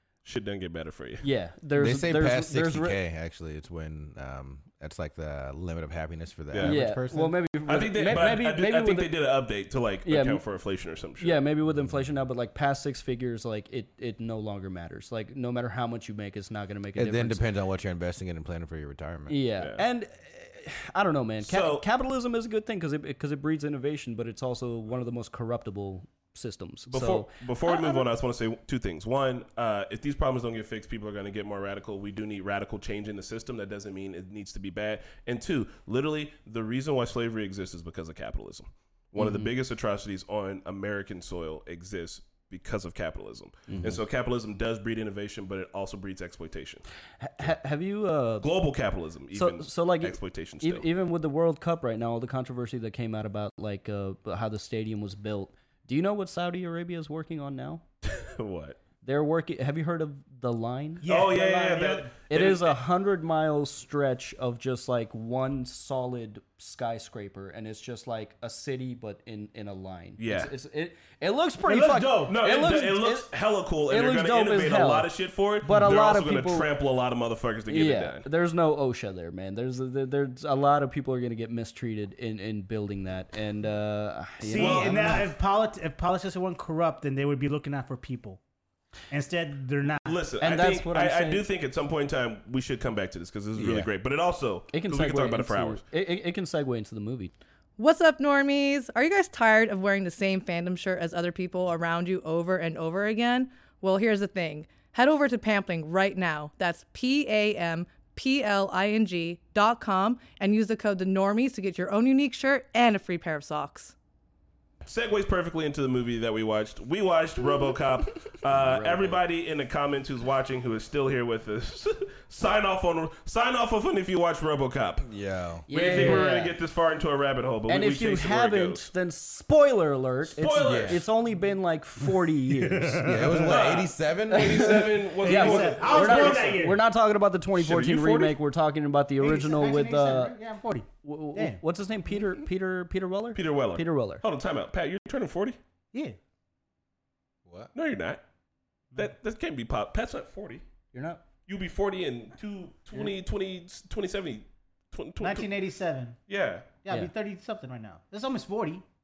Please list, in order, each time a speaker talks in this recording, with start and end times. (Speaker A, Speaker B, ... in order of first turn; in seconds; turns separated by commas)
Speaker A: 0.2-1.2, Speaker B: 1.2-3.0, Speaker C: 1.8-7.3, Speaker A: 6.5-6.8, Speaker B: 6.6-9.1, Speaker A: 7.7-11.4, Speaker B: 10.0-10.4, Speaker B: 11.2-17.4, Speaker C: 16.9-19.4, Speaker B: 19.3-27.3, Speaker A: 21.4-21.8, Speaker A: 26.9-46.8, Speaker B: 39.2-39.5, Speaker B: 43.7-44.0, Speaker B: 47.2-48.5, Speaker A: 48.4-50.9, Speaker B: 49.3-57.8, Speaker A: 58.0-58.8, Speaker B: 59.0-61.0, Speaker D: 61.0-62.1, Speaker A: 61.0-62.8, Speaker B: 62.3-73.3, Speaker A: 70.2-70.5, Speaker D: 71.6-72.4, Speaker A: 72.3-78.2, Speaker B: 73.9-75.1, Speaker B: 75.7-76.7, Speaker B: 77.7-85.3, Speaker D: 84.4-88.4, Speaker A: 84.6-85.2, Speaker D: 89.1-90.2, Speaker A: 90.0-95.8, Speaker B: 90.4-91.5, Speaker C: 93.5-93.9, Speaker B: 94.7-97.3, Speaker E: 97.8-113.9, Speaker A: 114.8-125.1, Speaker C: 118.5-119.2, Speaker C: 125.0-126.2, Speaker B: 125.7-126.5, Speaker A: 125.7-128.9, Speaker B: 127.7-133.3, Speaker A: 130.3-131.1, Speaker C: 130.6-131.0, Speaker D: 132.4-133.6, Speaker C: 133.0-134.9, Speaker A: 133.4-136.6, Speaker B: 134.3-140.3, Speaker D: 135.2-136.8, Speaker A: 137.6-138.4, Speaker D: 139.2-141.6, Speaker B: 141.0-144.2, Speaker A: 143.3-145.6, Speaker C: 147.4-147.7, Speaker A: 147.7-148.2, Speaker A: 148.9-150.6, Speaker B: 150.9-151.2, Speaker A: 151.5-155.5, Speaker D: 155.2-156.2, Speaker A: 156.3-156.7, Speaker D: 156.8-158.8